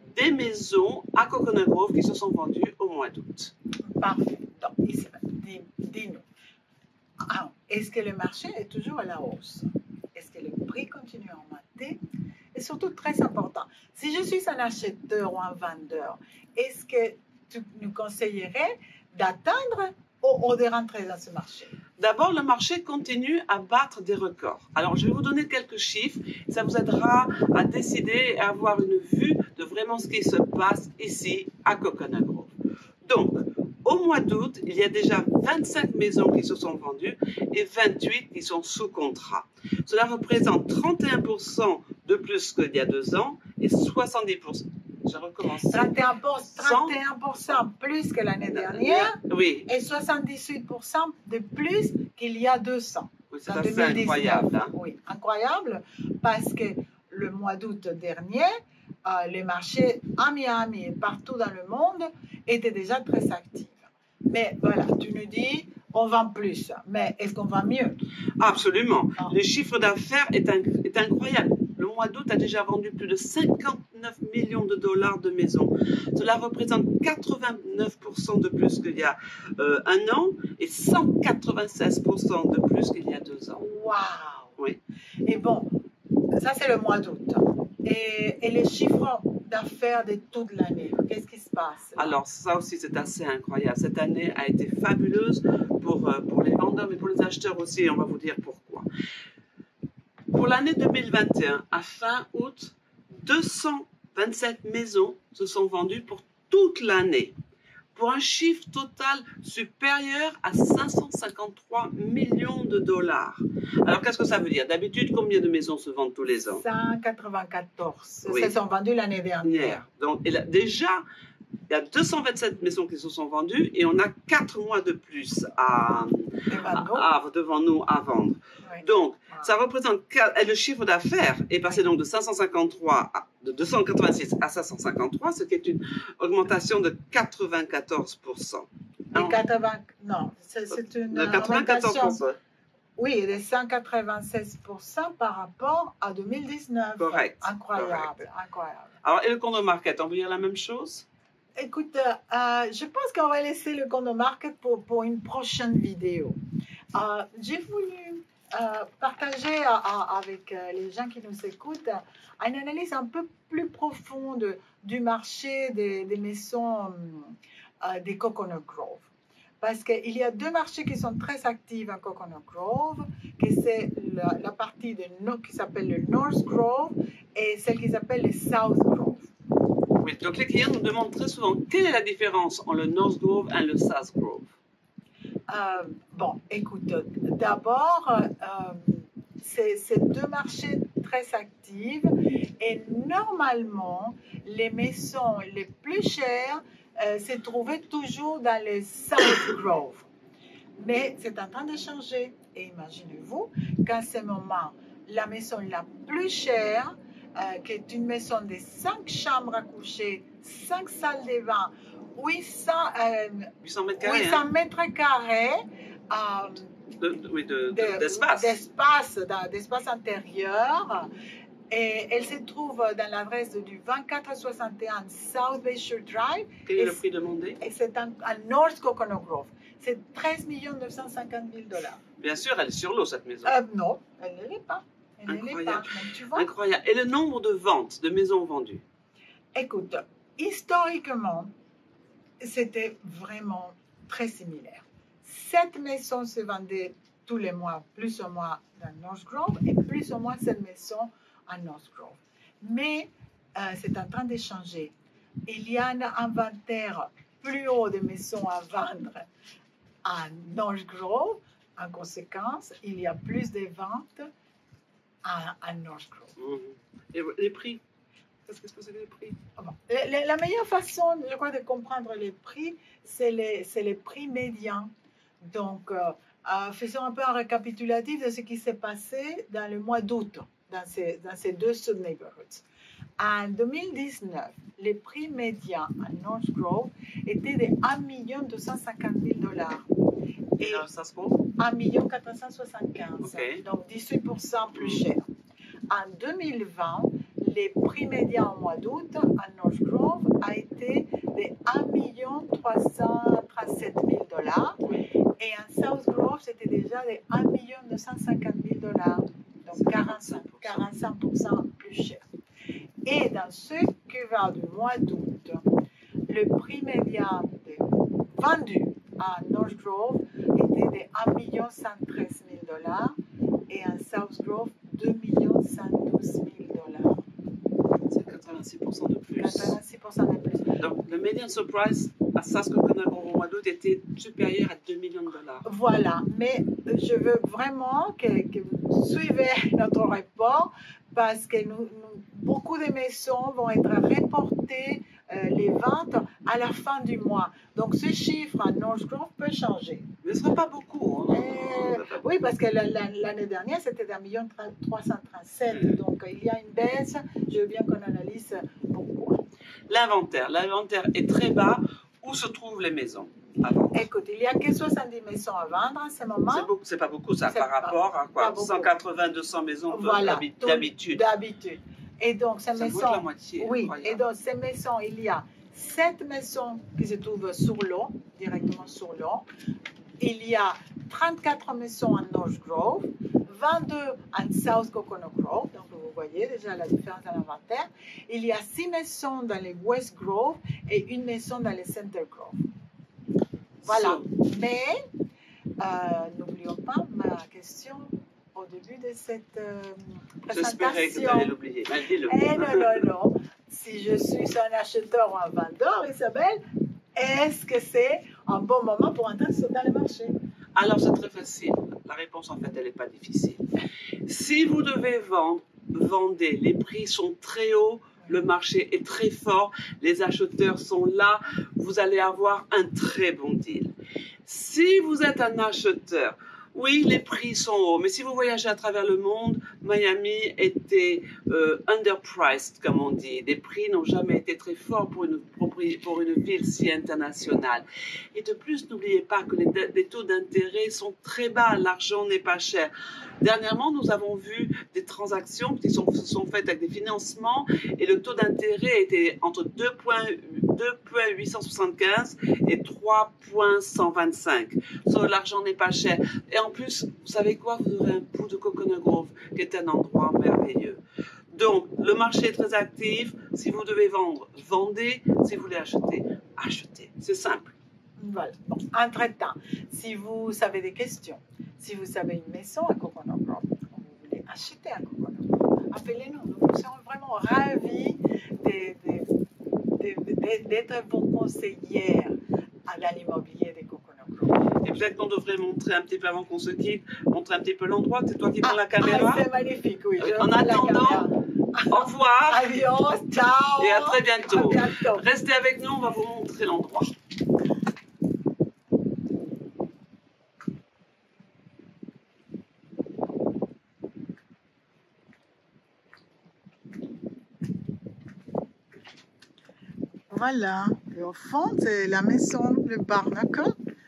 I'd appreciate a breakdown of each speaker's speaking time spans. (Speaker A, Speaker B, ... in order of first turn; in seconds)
Speaker A: 0.1-3.5, 22.0-45.9, 46.5-46.9, 48.5-49.7, 53.3-54.7, 68.4-83.6, 92.0-98.9, 100.3-107.3, 107.9-116.6, 118.2-118.5, 119.4-121.0, 121.7-139.4, 141.1-142.4, 147.0-148.2, 149.0-151.1, 180.0-184.5, 213.6-214.4, 217.0-218.6, 226.7-227.6, 232.2-233.5, 235.3-238.8, 266.4-267.8, 268.4-269.4, 290.6-291.4, 293.2-293.6, 294.8-295.0, 309.7-310.8, 328.1-329.8, 330.8-335.6, 350.2-352.2, 359.9-364.1, 366.5-371.2, 372.7-374.2, 393.8-394.2, 400.5-403.0, 410.7-413.6, 414.2-423.9, 424.4-461.0, 461.5-467.7, 484.8-489.4, 490.2-491.3, 491.9-492.6, 493.8-497.1
Speaker B: 3.8-6.2, 7.3-12.0, 12.5-21.7, 45.7-58.5, 59.0-68.0, 83.5-84.5, 85.2-85.7, 86.3-92.2, 116.5-119.8, 126.5-127.1, 128.6-129.5, 139.1-142.2, 143.0-148.9, 151.6-156.4, 156.9-169.1, 169.6-179.3, 185.5-200.1, 200.8-215.6, 216.1-216.7, 217.7-221.1, 221.7-227.0, 227.6-232.0, 233.4-236.5, 239.5-241.5, 242.4-254.9, 255.5-259.3, 260.0-264.3, 265.2-266.3, 269.6-274.9, 275.4-282.6, 283.2-289.9, 290.6-290.9, 291.6-295.3, 295.9-304.8, 305.4-312.2, 313.1-315.6, 316.3-317.8, 318.4-323.1, 323.7-327.2, 329.4-330.8, 335.6-350.1, 351.3-359.4, 363.9-366.7, 367.5-368.9, 369.9-379.4, 380.2-392.6, 393.8-395.0, 395.8-401.5, 402.3-406.6, 407.1-410.3, 468.2-479.3, 480.0-484.6, 488.6-495.2, 510.3-513.7